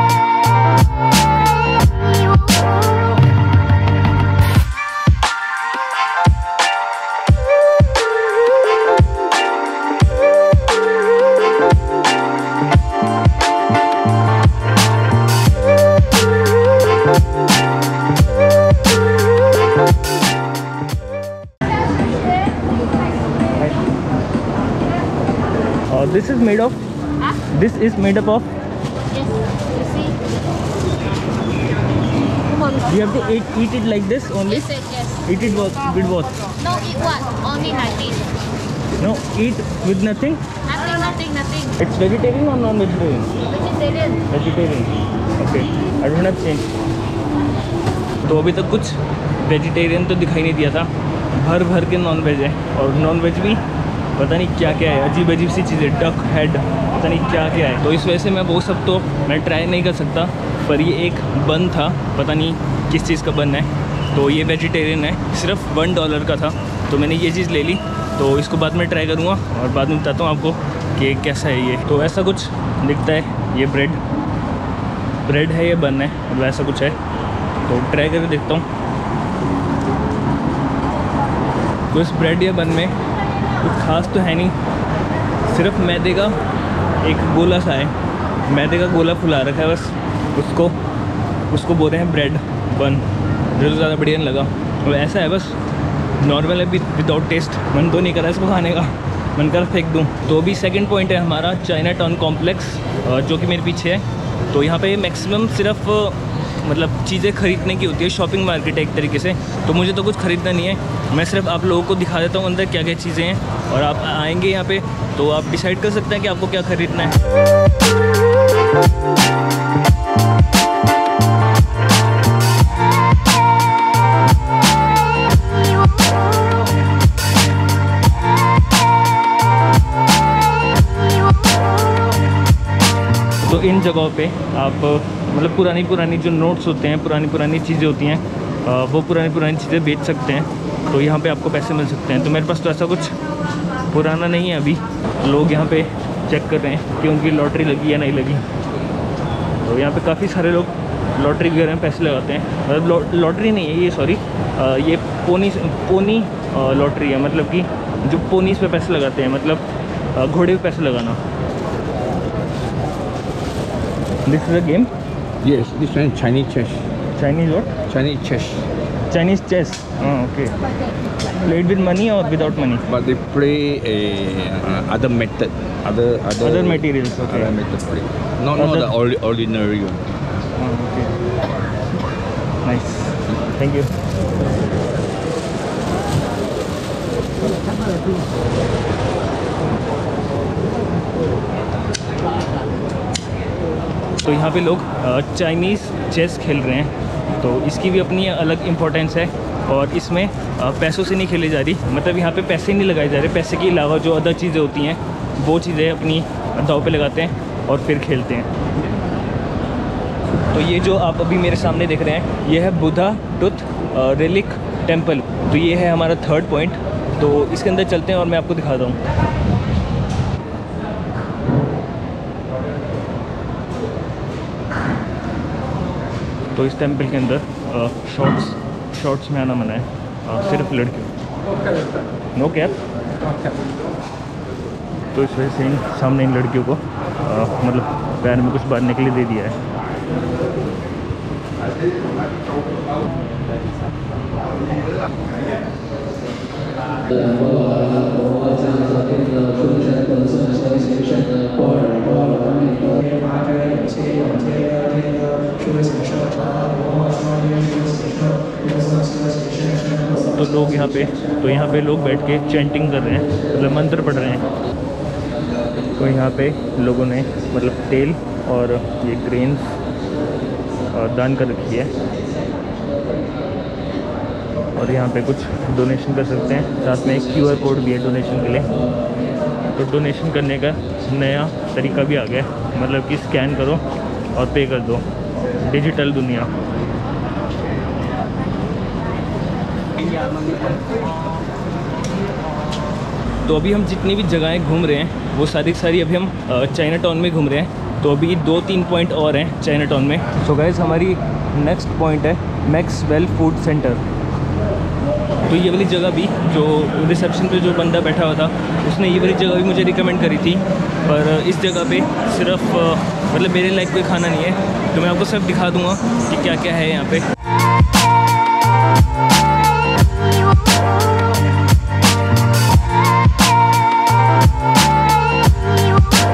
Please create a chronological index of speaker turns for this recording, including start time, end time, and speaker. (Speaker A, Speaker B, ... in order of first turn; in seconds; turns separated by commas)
Speaker A: 25.9-26.8, Speaker A: 27.4-28.5, Speaker B: 29.8-30.1, Speaker A: 32.7-36.7, Speaker B: 36.7-38.3, Speaker A: 39.0-40.6, Speaker B: 40.8-41.7, Speaker A: 41.7-46.7, Speaker A: 48.2-53.6, Speaker A: 54.1-74.0, Speaker A: 75.2-77.0, Speaker A: 77.6-78.7, Speaker A: 81.9-82.9, Speaker A: 83.5-84.5, Speaker A: 85.5-86.4, Speaker A: 87.0-90.8, Speaker A: 91.5-95.6, Speaker A: 96.2-117.2, Speaker A: 133.5-143.1, Speaker A: 143.8-148.4, Speaker A: 149.6-161.2, Speaker A: 164.2-164.9, Speaker C: 165.4-166.8, Speaker A: 167.2-167.7, Speaker C: 167.9-168.7, Speaker A: 169.1-170.5, Speaker A: 171.3-172.8, Speaker C: 172.9-180.0, Speaker A: 176.4-177.5, Speaker A: 178.6-178.9, Speaker A: 180.6-181.2, Speaker A: 182.6-183.9, Speaker A: 194.2-208.5, Speaker A: 210.5-219.0, Speaker A: 226.5-231.1, Speaker A: 232.3-232.8, Speaker A: 235.1-239.6, Speaker A: 249.5-252.2, Speaker A: 253.6-254.4, Speaker A: 257.4-258.3, Speaker A: 258.9-259.3, Speaker A: 259.9-264.4, Speaker A: 265.9-269.7, Speaker A: 270.9-271.9, Speaker A: 274.8-278.7, Speaker A: 279.7-283.8, Speaker A: 284.3-285.0, Speaker A: 285.6-286.5, Speaker A: 293.4-304.1, Speaker A: 305.5-317.3